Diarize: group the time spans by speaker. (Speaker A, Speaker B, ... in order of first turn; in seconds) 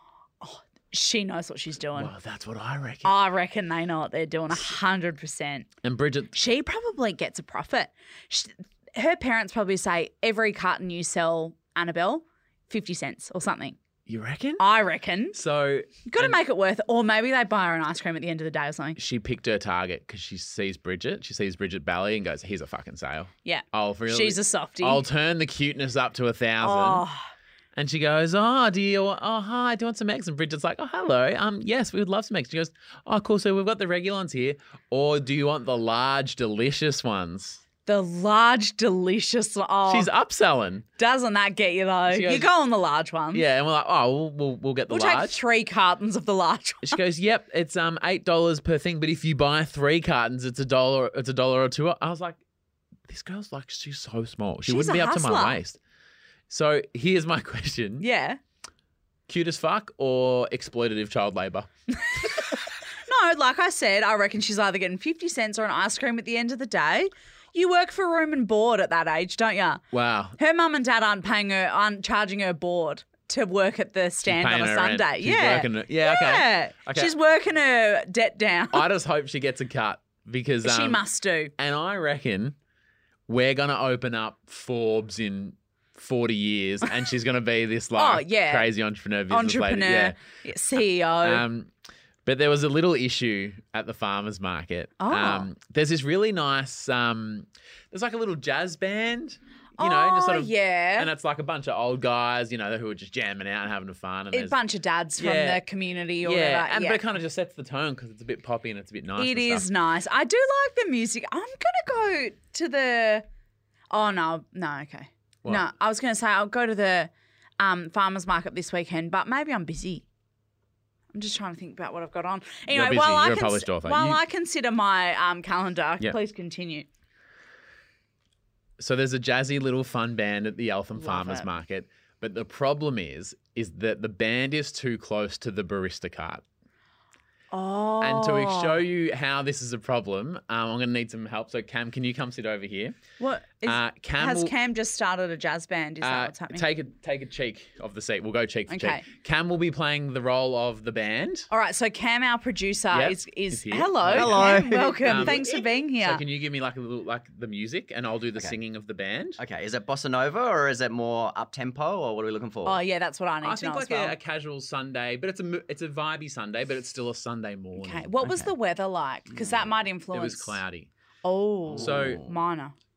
Speaker A: 0.4-2.1, 3.0-5.7, 6.3-13.8, 14.6-15.4, 16.1-19.0, 23.4-25.1, 26.6-27.3, 37.9-40.1, 41.0-43.5, 44.9-47.0, 54.7-55.6, 58.0-58.4, 62.0-69.8, 70.4-78.8, 80.6-81.5, 88.0-88.7, 89.3-91.4, 95.0-95.5, 99.8-101.1, 104.3-107.0, 109.2-113.2, 113.9-120.0, 121.1-126.9, 131.0-131.5, 137.5-138.8, 143.2-146.7, 148.7-149.1, 151.5-156.2, 162.6-164.2, 167.8-170.6, 171.2-172.7
Speaker B: 2.0-3.1, 5.8-6.3, 14.1-14.6, 15.3-16.4, 19.0-27.1, 27.8-37.6, 39.9-40.8, 42.1-42.5, 43.3-45.4, 46.8-52.4, 53.1-55.8, 56.5-58.1, 59.3-61.7, 69.9-70.4, 74.2-77.1, 78.7-81.0, 81.6-82.6, 83.3-90.2, 91.2-91.7, 92.2-104.6, 105.2-105.6, 106.2-109.7, 122.7-124.2, 128.8-136.4, 138.0-143.0, 143.7-144.5, 146.0-151.5, 152.9-159.4, 163.4-168.5, 170.1-170.9, 171.7-172.3
Speaker C: 154.1-155.4, 159.4-162.8, 171.8-172.1